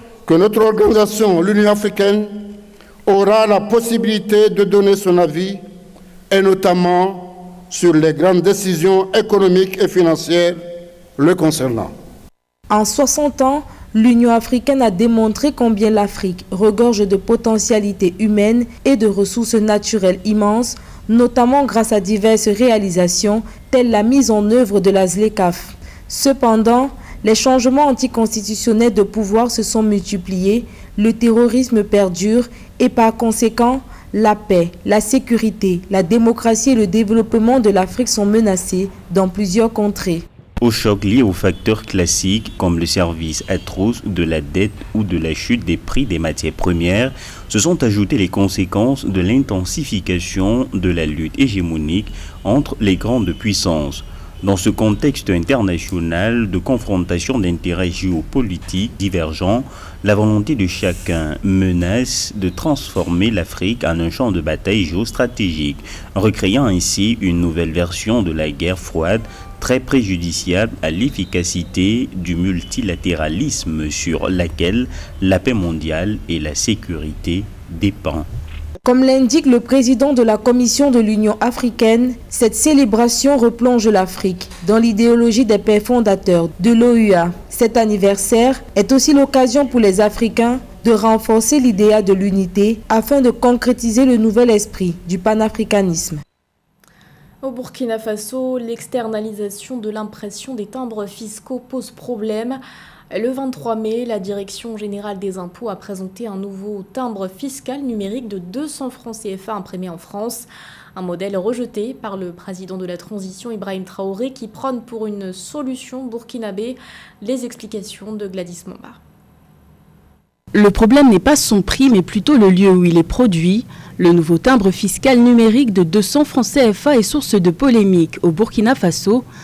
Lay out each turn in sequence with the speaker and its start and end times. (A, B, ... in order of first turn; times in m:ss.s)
0:00.2-0:02.4 A
0:03.0-0:05.6 A
0:06.3-0:10.6 A
0:11.2-0:11.9 A
0:12.7-0:40.2 B
0:40.6-1:18.3 C
1:18.8-1:36.2 B
1:37.4-1:42.6 D
1:43.1-1:59.0 D
2:00.5-2:09.2 E